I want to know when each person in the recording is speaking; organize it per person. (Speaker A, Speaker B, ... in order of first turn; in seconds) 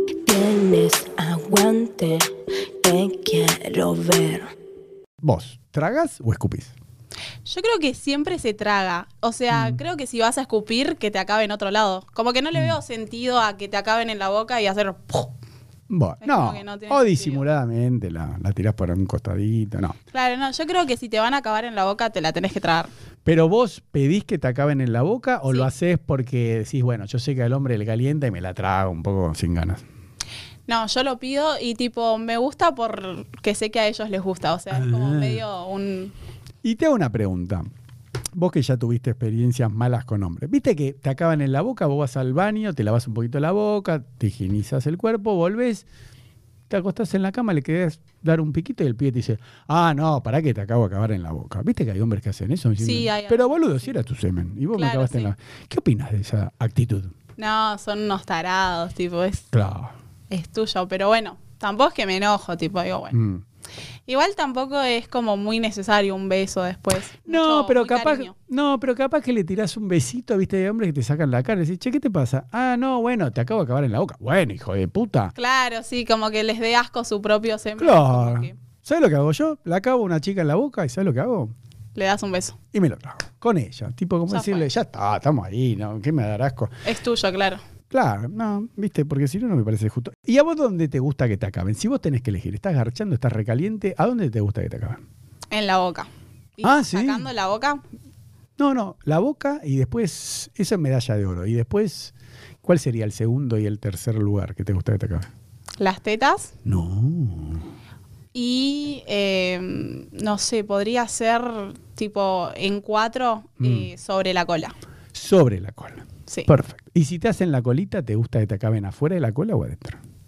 Speaker A: 0.3-2.3, 2.8-4.5
Speaker B: 5.2-6.7, 9.5-9.8, 15.9-20.0, 23.2-29.8, 34.7-35.4, 36.6-37.7, 38.3-45.9, 46.7-57.1, 59.5-59.9, 63.1-63.4, 67.2-75.3, 77.8-81.5, 82.7-86.7, 87.9-95.0, 96.6-97.3, 98.6-105.3, 106.7-107.6, 113.6-113.9, 115.1-120.0
Speaker C: 7.5-15.3, 16.2-17.4, 20.1-22.9, 30.7-36.1, 52.8-54.0, 54.7-55.3, 57.4-59.5, 60.3-63.1, 64.1-68.3, 75.4-78.6, 82.0-82.6, 84.3-84.7, 86.8-87.6, 95.5-97.8, 105.8-106.5, 108.3-114.8